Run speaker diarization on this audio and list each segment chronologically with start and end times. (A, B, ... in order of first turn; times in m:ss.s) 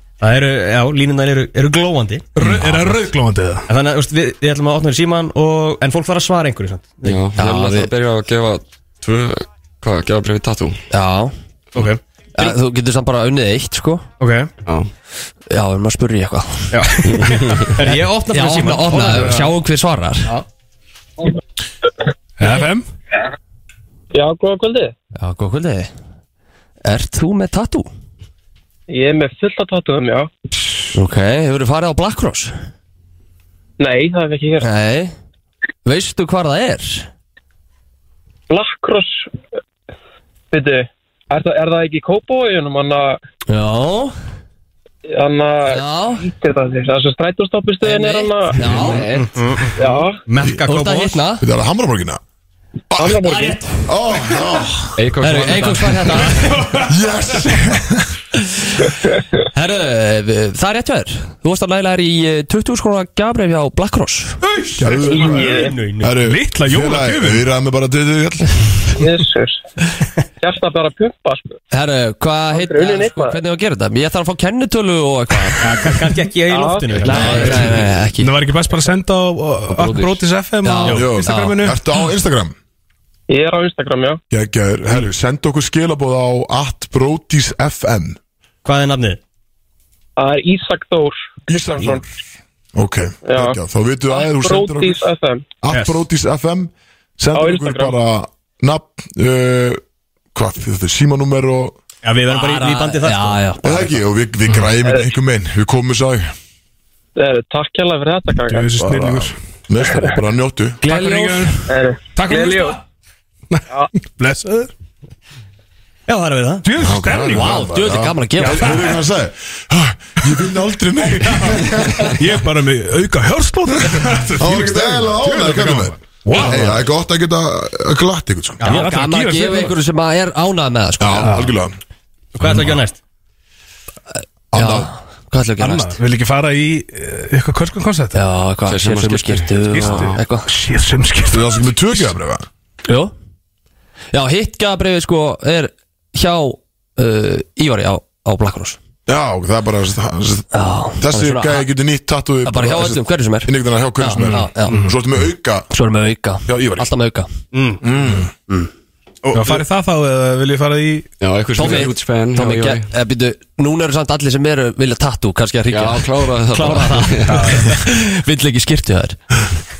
0:00.2-0:02.6 A
0:02.4-0:03.7 B
0:03.7-0:07.2 A
0:07.0-0:10.8 C
0:07.4-0:07.9 D
0:10.9-0:11.3 D
0:11.7-0:12.5 A
0:12.4-0:14.0 D
0:14.2-0:14.5 A
0:15.5-0:16.8 D
0:16.7-0:19.4 A
0:17.2-0:17.6 C
0:18.3-0:20.4 D
0:19.1-0:19.4 B
0:22.4-0:22.9 B
0:24.1-0:24.9 E
0:25.2-0:25.9 D
0:26.8-0:27.9 D
0:28.9-0:30.3 E
0:30.9-0:32.6 D
0:33.8-0:34.7 E
0:34.6-0:35.1 D
0:35.8-0:37.1 D
0:38.5-0:39.3 E
0:40.5-0:43.2 E
0:43.5-0:44.1 D
0:45.1-0:48.7 E
0:45.7-0:46.3 D
0:47.8-0:49.4 D
0:49.2-0:51.2 A
0:49.8-0:50.2 E
0:50.6-0:51.4 D
0:51.4-0:52.2 F
0:52.9-0:55.0 F
0:53.0-0:53.6 E
0:53.2-0:53.7 D
0:55.0-0:56.2 C
0:55.2-0:56.8 D
0:56.3-0:56.9 B
0:56.8-0:58.2 F
0:58.4-0:58.9 D
0:59.4-1:04.4 D
1:04.5-1:05.3 B
1:04.8-1:08.9 F
1:05.1-1:06.1 A
1:05.3-1:05.7 E
1:06.2-1:07.4 B
1:09.0-1:09.6 E
1:10.4-1:11.6 E
1:11.7-1:15.9 D
1:12.5-1:13.4 E
1:15.6-1:17.7 A
1:16.5-1:17.2 E
1:17.0-1:21.8 B
1:17.0-1:18.4 D
1:19.7-1:20.2 C
1:20.6-1:21.7 D
1:20.9-1:22.6 F
1:23.3-1:24.2 E
1:24.3-1:28.2 F
1:28.6-1:29.2 A
1:30.2-1:31.2 E
1:31.5-1:32.0 F
1:31.7-1:32.0 E
1:32.7-1:35.0 F
1:33.2-1:33.6 E
1:34.1-1:35.4 E
1:35.6-1:39.8 F
1:35.7-1:36.0 A
1:37.3-1:37.9 E
1:40.3-1:41.8 F
1:42.0-1:43.4 A
1:42.3-1:44.0 D
1:43.6-1:46.3 F
1:47.2-1:48.7 E
1:48.4-1:49.4 B
1:48.8-1:50.8 F
1:50.8-1:52.8 B
1:50.8-1:51.5 D
1:51.7-1:52.8 E
1:53.5-1:54.7 B
1:56.1-1:56.6 A
1:56.6-1:57.7 B
1:56.8-2:02.2 F
1:57.3-1:58.9 D
2:02.0-2:06.8 B
2:04.4-2:08.7 F
2:08.6-2:09.0 A
2:08.6-2:09.8 B
2:08.6-2:11.4 D
2:11.0-2:11.8 F
2:11.2-2:11.5 B
2:12.3-2:13.0 A
2:12.4-2:12.8 B
2:14.5-2:14.9 F
2:14.5-2:16.0 D
2:15.6-2:18.2 B
2:18.1-2:20.5 D
2:18.7-2:20.2 C
2:19.7-2:21.5 B
2:21.3-2:22.5 F
2:22.8-2:23.1 D
2:24.1-2:28.8 D
2:29.0-2:35.7 F
2:30.5-2:31.7 D
2:32.4-2:34.8 D
2:34.2-2:34.9 B
2:35.7-2:37.3 D
2:36.4-2:36.9 F
2:37.5-2:37.8 A
2:37.8-2:38.3 F
2:39.2-2:39.6 A
2:39.3-2:41.1 B
2:41.2-2:42.9 C
2:41.6-2:49.2 D
2:45.7-2:47.6 C
2:47.2-2:47.7 B